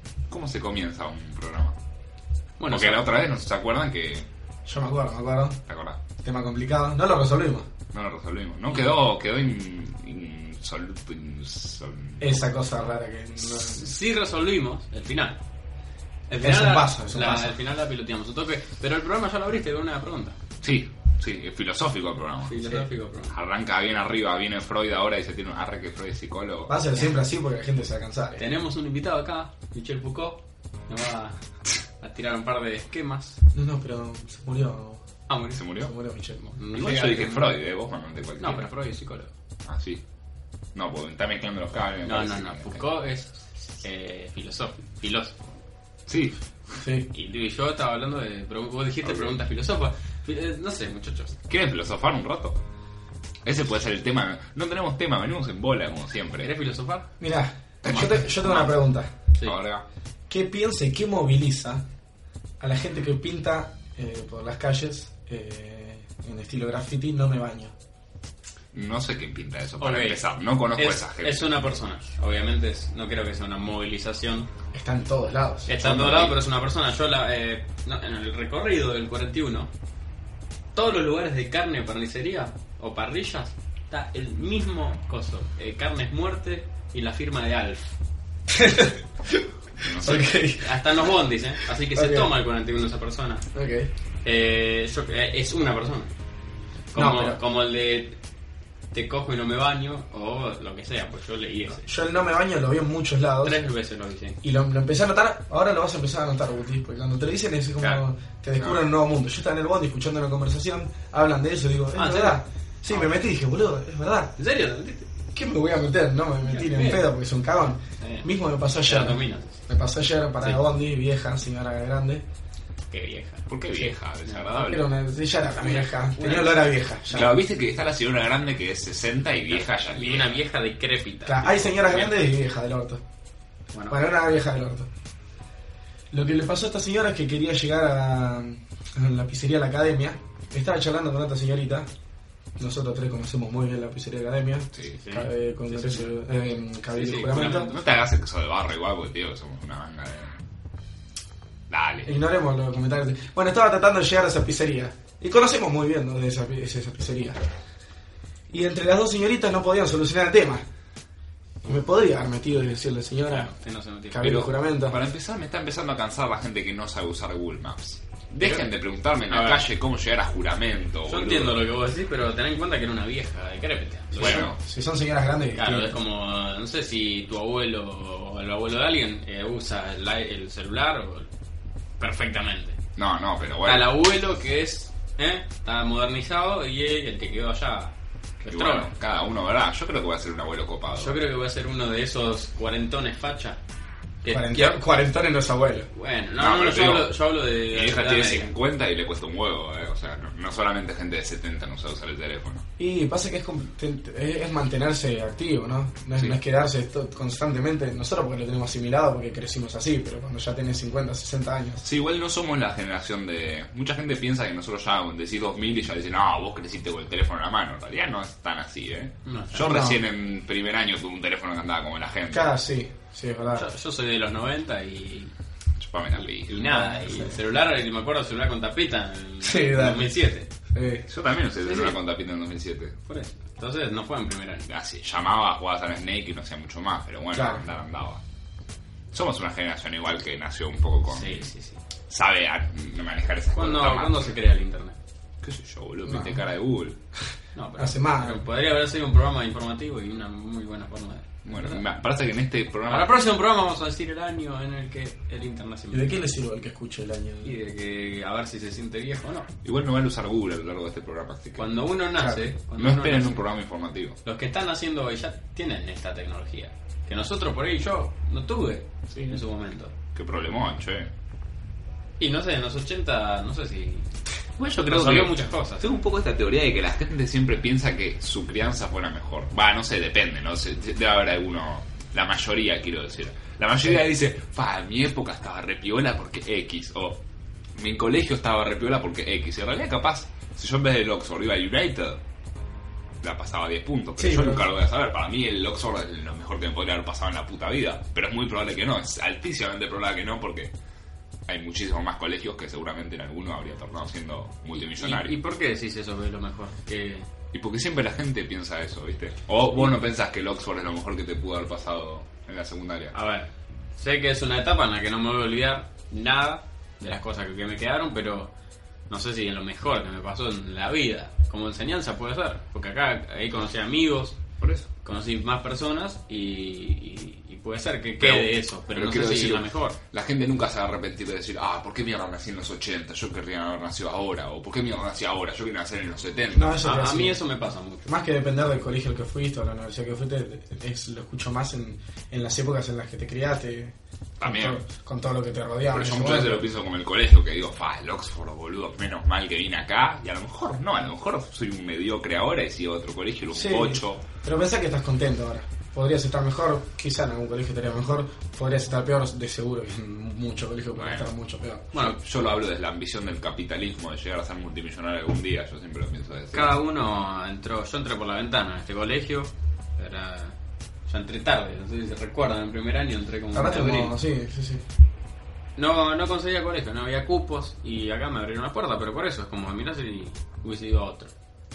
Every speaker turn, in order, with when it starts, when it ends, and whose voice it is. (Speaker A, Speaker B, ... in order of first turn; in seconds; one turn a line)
Speaker A: 0.3-1.8
Speaker B: 2.6-3.1
Speaker A: 2.7-4.3
Speaker C: 4.7-5.6
Speaker A: 5.7-6.0
Speaker C: 6.2-7.7
Speaker A: 7.9-12.4
Speaker C: 12.2-14.0
Speaker B: 13.4-15.4
Speaker B: 16.3-20.4
Speaker C: 16.4-17.6
Speaker A: 20.6-26.8
Speaker B: 22.5-23.4
Speaker C: 26.7-28.4
Speaker B: 28.4-31.4
Speaker B: 32.0-33.4
Speaker C: 33.5-35.0
Speaker B: 35.3-35.7
Speaker A: 35.5-35.9
Speaker C: 35.8-36.5
Speaker B: 36.5-37.5
Speaker A: 36.7-38.7
Speaker B: 38.4-39.3
Speaker A: 39.6-40.0
Speaker A: 40.8-42.9
Speaker B: 42.0-45.4
Speaker A: 46.1-46.4
Speaker C: 46.8-47.1
Speaker B: 47.1-51.4
Speaker A: 49.0-49.4
Speaker A: 51.5-52.6
Speaker A: 53.4-56.5
Speaker B: 56.4-57.1
Speaker C: 57.2-59.1
Speaker A: 57.8-58.7
Speaker B: 57.9-58.8
Speaker A: 59.4-59.8
Speaker C: 60.3-61.9
Speaker C: 62.6-67.7
Speaker A: 68.7-71.5
Speaker B: 69.8-74.5
Speaker C: 74.7-75.7
Speaker B: 75.7-79.7
Speaker A: 75.8-76.4
Speaker B: 80.7-88.0
Speaker C: 88.5-91.1
Speaker A: 89.8-90.4
Speaker B: 90.6-93.5
Speaker C: 91.9-92.3
Speaker C: 93.5-93.9
Speaker B: 94.2-96.1
Speaker B: 96.9-98.2
Speaker C: 97.0-97.4
Speaker B: 98.9-101.9
Speaker C: 101.9-103.7
Speaker B: 103.4-104.4
Speaker C: 104.4-114.3
Speaker A: 108.6-108.8
Speaker B: 112.0-113.1
Speaker B: 114.4-115.1
Speaker C: 115.3-122.2
Speaker B: 116.5-117.1
Speaker B: 118.0-118.3
Speaker B: 118.8-119.6
Speaker B: 122.9-123.5
Speaker A: 123.5-124.8
Speaker B: 124.3-124.8
Speaker C: 124.6-127.4
Speaker B: 125.5-126.6
Speaker A: 127.1-130.4
Speaker B: 129.5-132.2
Speaker C: 131.3-133.0
Speaker C: 133.9-134.9
Speaker C: 136.1-141.9
Speaker C: 142.6-147.7
Speaker B: 145.0-146.2
Speaker B: 146.9-147.8
Speaker A: 147.4-150.4
Speaker A: 151.7-152.1
Speaker C: 152.1-157.5
Speaker C: 158.5-160.7
Speaker C: 161.6-163.5
Speaker B: 163.3-164.3
Speaker C: 164.1-165.0
Speaker A: 164.2-171.6
Speaker B: 169.3-169.7
Speaker B: 171.1-174.5
Speaker C: 174.2-176.0
Speaker A: 174.2-174.6
Speaker B: 175.6-181.3
Speaker B: 182.0-182.8
Speaker A: 183.0-183.9
Speaker B: 183.7-188.9
Speaker A: 188.5-191.2
Speaker B: 190.9-193.6
Speaker B: 194.2-194.8
Speaker C: 194.3-195.9
Speaker B: 195.9-198.5
Speaker A: 196.4-197.2
Speaker A: 197.7-202.7
Speaker C: 202.8-211.8
Speaker A: 211.8-222.5
Speaker B: 219.2-219.8
Speaker C: 219.7-220.0
Speaker C: 222.3-223.7
Speaker B: 223.5-225.3
Speaker A: 225.8-226.6
Speaker B: 226.2-230.5
Speaker C: 226.6-227.4
Speaker C: 229.4-230.2
Speaker C: 230.7-231.1
Speaker A: 231.1-233.0
Speaker B: 231.6-232.0
Speaker B: 233.1-234.7
Speaker A: 234.7-238.2
Speaker C: 237.3-237.6
Speaker A: 239.1-241.5
Speaker B: 241.1-241.8
Speaker A: 242.1-244.3
Speaker B: 243.5-245.0
Speaker A: 245.4-247.0
Speaker C: 246.1-246.4
Speaker B: 247.6-251.8
Speaker C: 247.8-248.5
Speaker A: 251.4-253.2
Speaker B: 252.9-256.2
Speaker C: 255.9-257.6
Speaker B: 257.4-259.5
Speaker A: 259.6-261.7
Speaker B: 261.6-263.4
Speaker C: 262.2-262.5
Speaker A: 262.8-264.2
Speaker B: 264.2-269.9
Speaker A: 269.1-269.4
Speaker A: 270.1-271.1
Speaker B: 272.2-274.1
Speaker A: 274.6-287.2
Speaker B: 274.9-275.9
Speaker A: 287.8-292.2
Speaker A: 293.2-300.7
Speaker C: 294.2-294.6
Speaker A: 301.5-305.4
Speaker B: 304.8-307.3
Speaker A: 307.5-313.1
Speaker B: 313.1-318.5
Speaker B: 319.1-324.4
Speaker A: 324.6-324.9
Speaker B: 325.0-330.0
Speaker A: 328.2-336.8
Speaker C: 336.5-337.4
Speaker B: 336.8-338.1
Speaker C: 338.1-346.7
Speaker A: 344.4-344.8
Speaker A: 345.9-354.3
Speaker C: 353.5-361.9
Speaker A: 361.0-361.3
Speaker B: 361.9-362.2
Speaker A: 361.9-366.8
Speaker B: 366.5-374.1
Speaker C: 373.5-374.8
Speaker B: 375.8-381.3